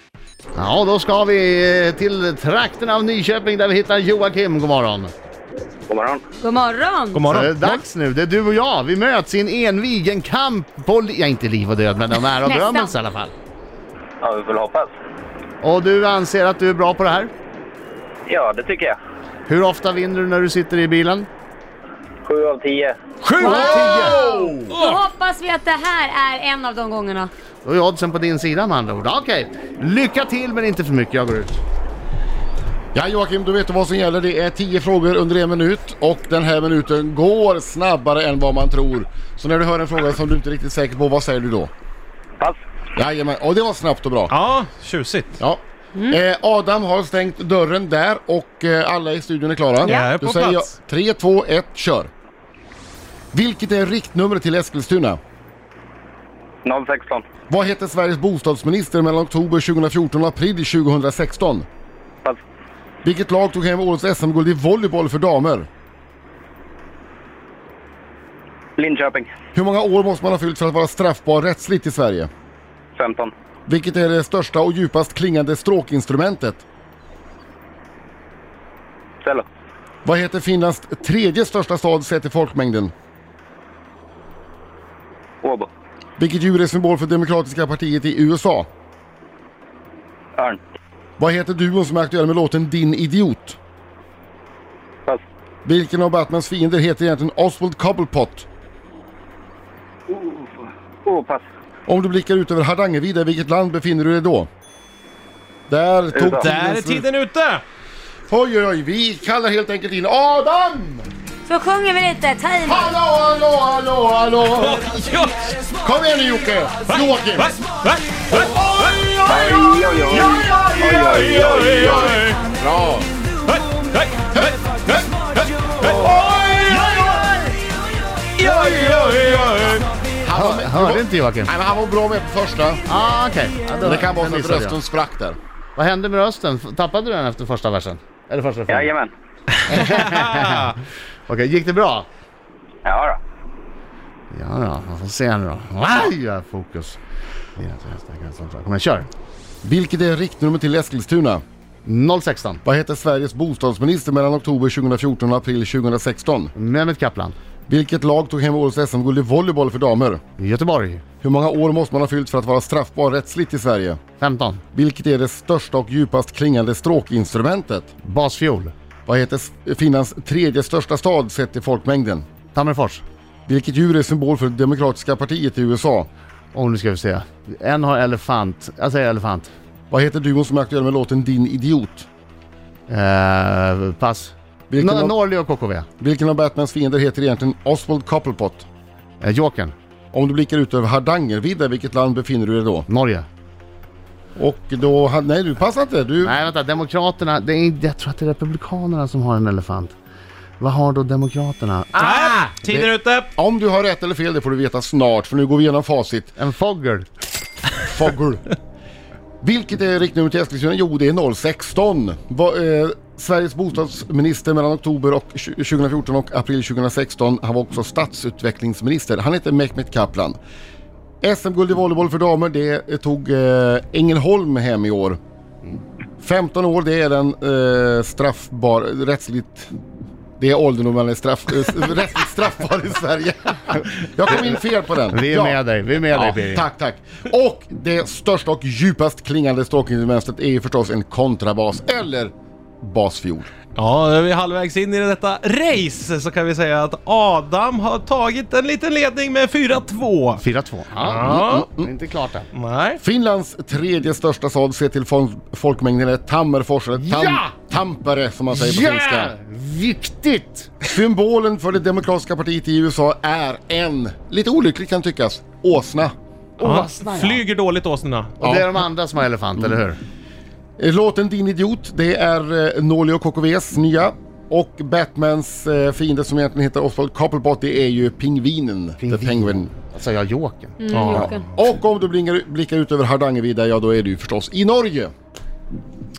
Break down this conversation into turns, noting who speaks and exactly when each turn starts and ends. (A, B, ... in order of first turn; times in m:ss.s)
0:00.5-0:05.1 A
0:05.9-0:06.3 B
0:06.4-0:07.3 C
0:07.1-0:07.8 D
0:07.3-0:13.3 A
0:12.4-0:12.9 C
0:14.2-0:14.9 B
0:15.6-0:17.3 A
0:18.3-0:19.0 B
0:19.5-0:21.3 A
0:22.2-0:23.0 B
0:23.2-0:24.1 D
0:23.4-0:23.9 C
0:23.4-0:24.2 A
0:23.4-0:24.7 E
0:24.4-0:27.3 C
0:24.7-0:25.0 D
0:27.6-0:31.6 A
0:32.9-0:41.7 E
0:42.9-0:44.3 E
0:44.3-0:45.4 D
0:45.4-0:52.1 E
0:49.8-0:50.2 C
0:49.8-0:50.8 D
0:53.3-0:55.2 E
0:56.6-0:57.2 B
0:57.5-1:01.7 E
1:03.0-1:05.7 E
1:08.8-1:09.3 B
1:09.5-1:12.3 E
1:13.0-1:13.3 B
1:13.7-1:16.6 E
1:20.0-1:22.9 E
1:25.4-1:25.7 B
1:26.2-1:28.7 E
1:31.2-1:33.6 E
1:35.6-1:38.5 E
1:40.1-1:41.4 B
1:41.9-1:44.5 E
1:45.7-1:47.0 E
1:46.1-1:46.4 B
1:46.3-1:47.6 D
1:48.3-1:51.1 E
1:51.5-1:52.9 C
1:52.6-1:54.8 E
1:54.6-1:55.5 D
1:55.8-1:57.6 E
1:57.4-2:02.4 D
1:59.2-2:02.0 B
2:01.7-2:03.1 E
2:03.4-2:07.3 D
2:04.3-2:04.6 E
2:05.8-2:07.2 E
2:08.3-2:09.9 D
2:10.2-2:12.8 E
2:10.3-2:11.5 A
2:12.9-2:14.8 A
2:13.8-2:15.4 E
2:15.8-2:18.9 A
2:18.7-2:19.1 B
2:19.7-2:22.1 A
2:22.8-2:23.2 B
2:24.3-2:27.0 A
2:27.6-2:29.1 A
2:29.6-2:31.4 E
2:31.8-2:32.6 A
2:32.6-2:36.5 E
2:36.5-2:37.4 A
2:37.7-2:40.2 E
2:40.4-2:41.0 A
2:41.2-2:44.0 E
2:44.2-2:44.6 A
2:44.7-2:47.9 E
2:48.0-2:48.7 A
2:49.0-2:52.3 E
2:52.5-2:53.0 A
2:53.5-2:56.1 E
2:56.5-2:59.5 A
2:59.9-3:02.1 E
3:02.9-3:05.9 A
3:04.7-3:05.2 E
3:06.0-3:08.6 E
3:09.2-3:09.7 A
3:10.1-3:12.8 E
3:12.9-3:13.3 A
3:14.4-3:16.4 E
3:16.2-3:19.9 A
3:20.6-3:22.0 A
3:21.9-3:23.3 D
3:22.0-3:26.4 E
3:26.4-3:27.1 A
3:27.8-3:28.5 E
3:29.4-3:40.4 E
3:41.2-3:45.2 E
3:46.2-3:49.7 E
3:50.4-3:55.6 E
3:55.1-3:56.6 A
3:56.1-4:03.5 E
4:03.7-4:10.4 D
4:10.4-4:12.5 A
4:11.0-4:11.7 D
4:11.3-4:11.9 E
4:12.5-4:13.0 D
4:13.0-4:19.3 E
4:17.0-4:17.5 A
4:18.5-4:20.8 A
4:20.8-4:26.1 E
4:26.6-4:27.4 A
4:26.6-4:28.4 D
4:28.4-4:28.7 E
4:28.4-4:30.0 A
4:30.8-4:39.7 E
4:39.0-4:41.3 A
4:40.8-4:41.5 C
4:40.9-4:41.3 D
4:41.1-4:45.1 E